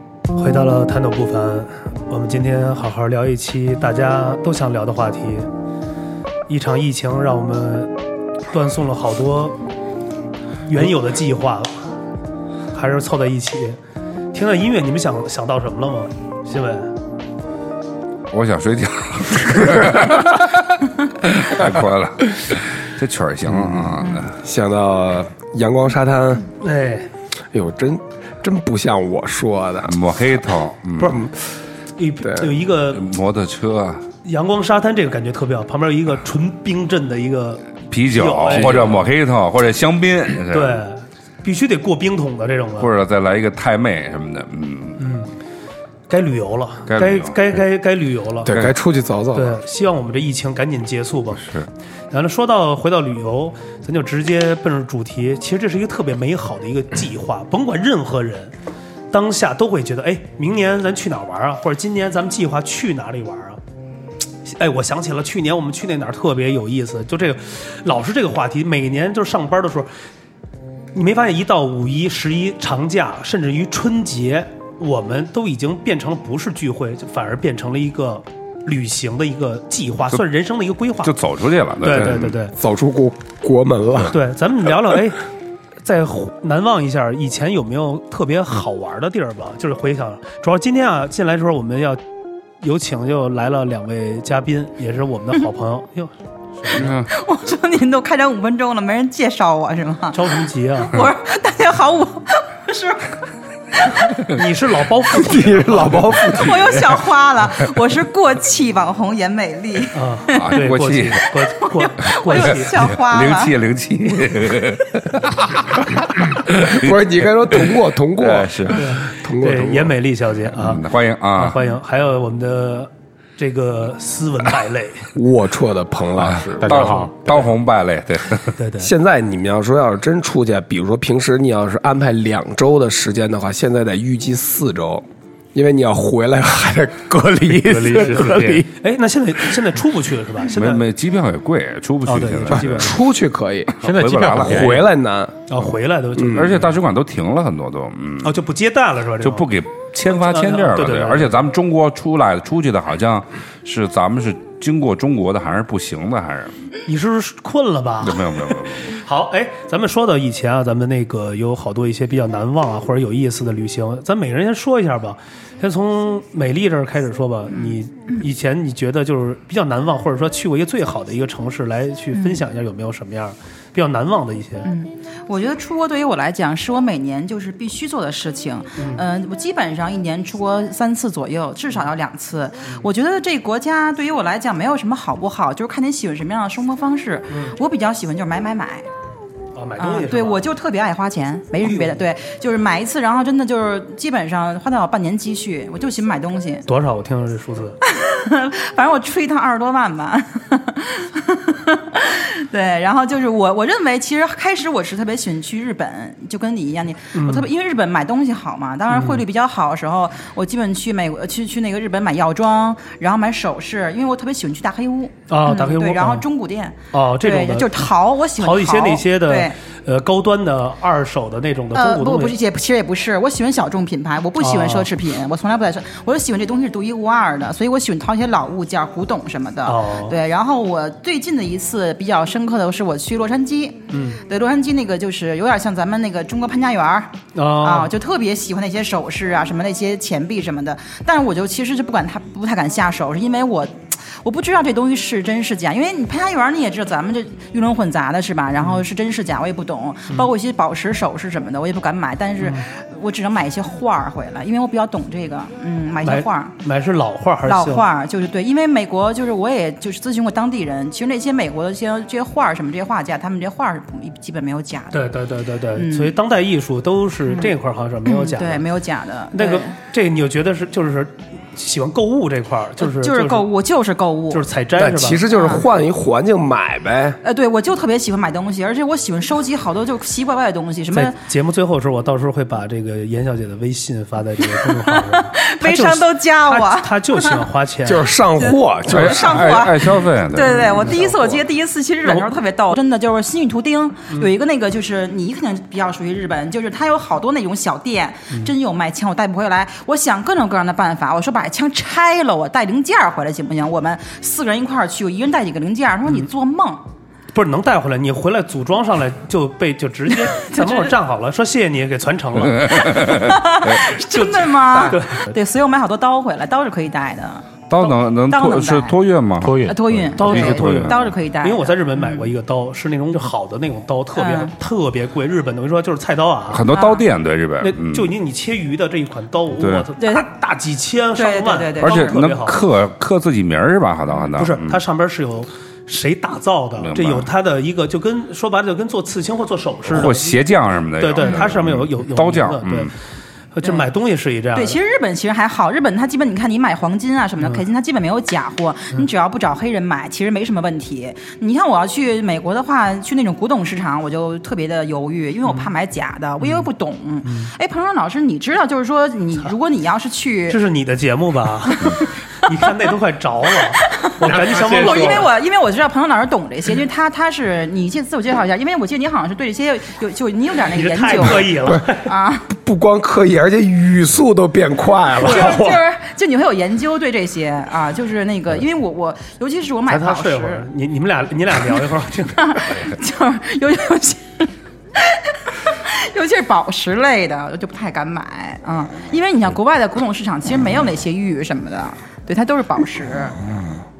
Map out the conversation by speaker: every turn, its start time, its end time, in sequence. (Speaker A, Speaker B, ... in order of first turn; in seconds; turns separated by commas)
Speaker A: 0.3-5.5, Speaker A: 6.5-7.9, Speaker A: 8.5-9.6, Speaker A: 10.7-11.8, Speaker A: 12.7-13.8, Speaker A: 14.3-16.9, Speaker B: 18.3-24.3, Speaker C: 23.5-26.5, Speaker A: 26.6-27.1, Speaker C: 27.5-30.0, Speaker B: 29.9-31.2, Speaker C: 31.0-31.5, Speaker A: 32.0-33.0, Speaker C: 32.2-32.5, Speaker B: 32.9-34.0, Speaker A: 34.2-39.0, Speaker B: 37.9-40.8, Speaker A: 40.5-42.9, Speaker B: 42.8-45.0, Speaker A: 45.0-45.3, Speaker A: 46.1-48.5, Speaker B: 46.9-47.4, Speaker C: 48.4-49.6, Speaker A: 49.3-51.5, Speaker A: 52.1-58.5, Speaker A: 59.1-63.6, Speaker A: 64.5-69.9, Speaker A: 70.9-81.1, Speaker B: 81.0-82.3, Speaker A: 81.8-82.5, Speaker C: 82.0-84.2, Speaker A: 84.1-85.2, Speaker A: 85.8-92.0, Speaker A: 92.6-97.0, Speaker B: 96.7-97.1, Speaker D: 97.1-104.1, Speaker A: 100.1-101.0, Speaker A: 104.3-106.8, Speaker C: 105.2-106.9, Speaker D: 106.3-110.6, Speaker A: 109.9-112.7, Speaker B: 110.3-111.2, Speaker D: 111.4-113.5, Speaker B: 112.3-118.9, Speaker C: 116.6-120.0, Speaker A: 118.7-125.1, Speaker B: 120.6-121.6, Speaker C: 125.2-126.9, Speaker B: 126.2-128.6, Speaker E: 126.6-127.3, Speaker A: 128.6-128.9, Speaker C: 128.8-138.7, Speaker A: 137.7-140.8, Speaker B: 138.0-138.6, Speaker B: 140.5-142.9, Speaker A: 142.1-143.0, Speaker C: 142.5-143.7, Speaker E: 143.8-144.9, Speaker B: 143.8-144.9, Speaker C: 144.3-145.3, Speaker A: 145.5-146.8, Speaker C: 146.2-146.6, Speaker B: 146.2-148.4, Speaker A: 148.2-149.5, Speaker B: 149.2-156.6, Speaker A: 150.1-151.4, Speaker A: 156.9-174.7, Speaker B: 158.0-158.9, Speaker D: 167.5-168.2, Speaker D: 172.1-172.4, Speaker D: 174.7-188.9, Speaker A: 178.8-179.0, Speaker A: 189.6-190.4, Speaker D: 189.8-196.7, Speaker A: 191.6-192.0, Speaker A: 196.7-197.8, Speaker D: 197.8-219.6, Speaker A: 207.2-207.5, Speaker A: 208.9-209.2, Speaker A: 215.3-216.2, Speaker A: 216.9-217.8, Speaker A: 218.4-222.3, Speaker D: 221.7-256.6, Speaker A: 224.4-224.9, Speaker A: 229.7-230.2, Speaker A: 233.9-234.2, Speaker A: 237.3-237.9, Speaker A: 256.1-257.9, Speaker D: 257.5-265.1, Speaker A: 264.9-268.7, Speaker D: 265.7-266.2, Speaker D: 267.3-269.7, Speaker A: 269.3-273.5, Speaker D: 272.8-274.4, Speaker A: 274.3-275.2, Speaker C: 274.8-277.2, Speaker D: 275.2-275.7, Speaker D: 277.2-281.2, Speaker A: 280.9-288.1, Speaker D: 284.6-287.4, Speaker C: 287.9-289.6, Speaker D: 288.4-306.8, Speaker B: 288.9-290.8, Speaker A: 290.5-291.4, Speaker A: 307.3-313.2, Speaker D: 310.3-310.9, Speaker B: 312.4-313.4, Speaker D: 312.8-319.0, Speaker A: 314.1-315.2, Speaker B: 317.7-319.6, Speaker E: 319.4-320.4, Speaker D: 319.6-322.3, Speaker B: 320.2-321.1, Speaker A: 320.2-326.6, Speaker D: 324.1-324.5, Speaker B: 326.5-328.1, Speaker D: 326.6-327.1, Speaker A: 327.6-332.6, Speaker B: 329.6-329.9, Speaker D: 330.0-330.3, Speaker D: 331.1-332.2, Speaker B: 331.8-334.8, Speaker A: 334.4-340.4, Speaker B: 336.8-337.3, Speaker B: 339.9-342.9, Speaker A: 341.0-342.9, Speaker A: 343.5-344.8, Speaker D: 344.5-360.6, Speaker A: 357.2-357.5, Speaker A: 360.5-365.3, Speaker D: 361.6-362.7, Speaker D: 363.7-372.5, Speaker A: 370.7-372.1, Speaker C: 371.6-371.9, Speaker C: 372.5-375.8, Speaker D: 375.2-380.7, Speaker A: 375.2-375.5, Speaker A: 379.9-382.4, Speaker D: 382.4-393.4